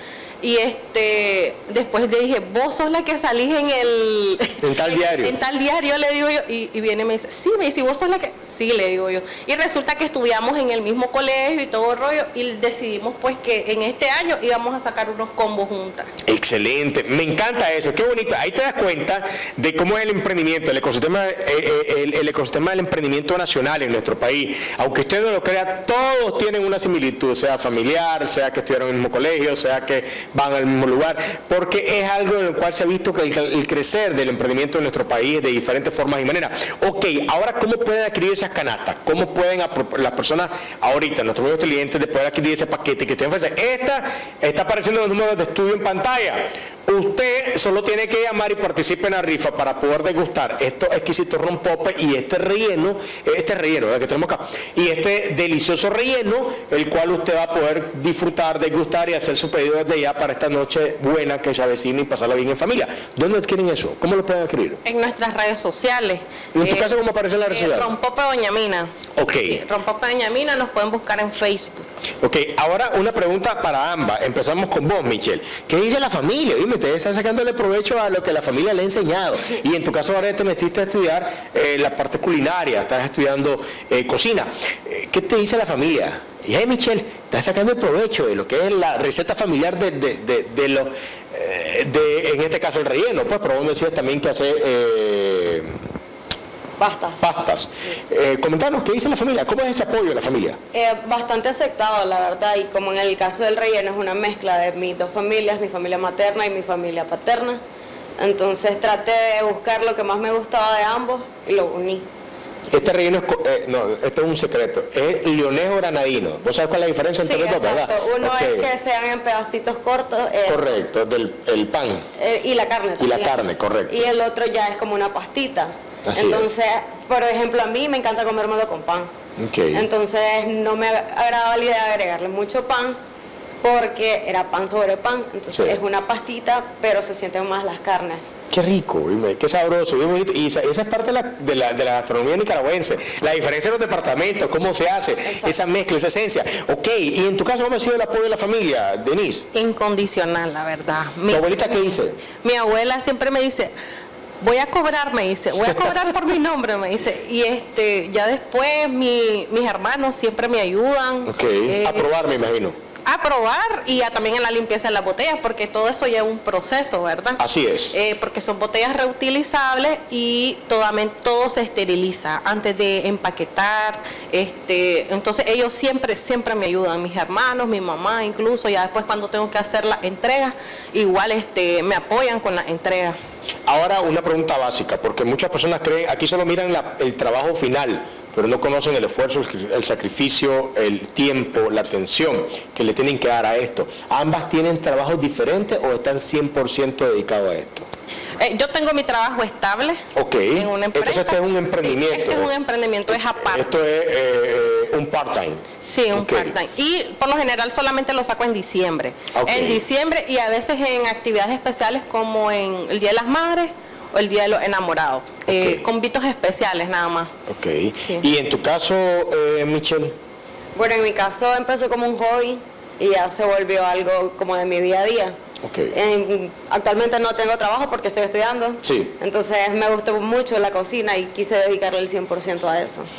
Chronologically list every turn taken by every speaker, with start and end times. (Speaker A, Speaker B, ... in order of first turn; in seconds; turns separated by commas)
Speaker A: 0.4-16.1, Speaker B: 4.6-5.3, Speaker B: 16.2-64.8, Speaker A: 64.8-71.9, Speaker B: 66.5-67.9, Speaker B: 69.2-69.6, Speaker B: 72.2-95.8, Speaker C: 96.8-98.0, Speaker B: 97.2-100.6, Speaker C: 100.7-107.6, Speaker C: 108.2-112.0, Speaker B: 112.7-118.7, Speaker C: 117.2-120.7, Speaker B: 120.5-122.0, Speaker C: 122.2-123.3, Speaker B: 123.0-123.9, Speaker C: 123.9-129.1, Speaker B: 126.0-126.5, Speaker B: 129.4-129.8, Speaker C: 129.7-133.0, Speaker C: 133.6-138.3, Speaker B: 138.5-149.5, Speaker C: 145.2-145.6, Speaker A: 149.5-151.9, Speaker B: 151.3-152.2, Speaker A: 152.4-153.7, Speaker A: 154.4-162.1, Speaker B: 161.3-162.8, Speaker A: 163.1-167.4, Speaker B: 167.4-167.9, Speaker A: 167.9-183.2, Speaker B: 183.7-197.9, Speaker A: 198.4-200.0, Speaker B: 200.1-202.5, Speaker A: 200.5-203.7, Speaker B: 203.1-206.6, Speaker A: 205.8-217.3, Speaker B: 209.3-209.8, Speaker B: 215.5-215.8, Speaker B: 217.5-220.2, Speaker A: 217.9-218.2, Speaker C: 220.8-225.3, Speaker B: 225.6-225.9, Speaker C: 225.9-233.1, Speaker B: 228.8-229.1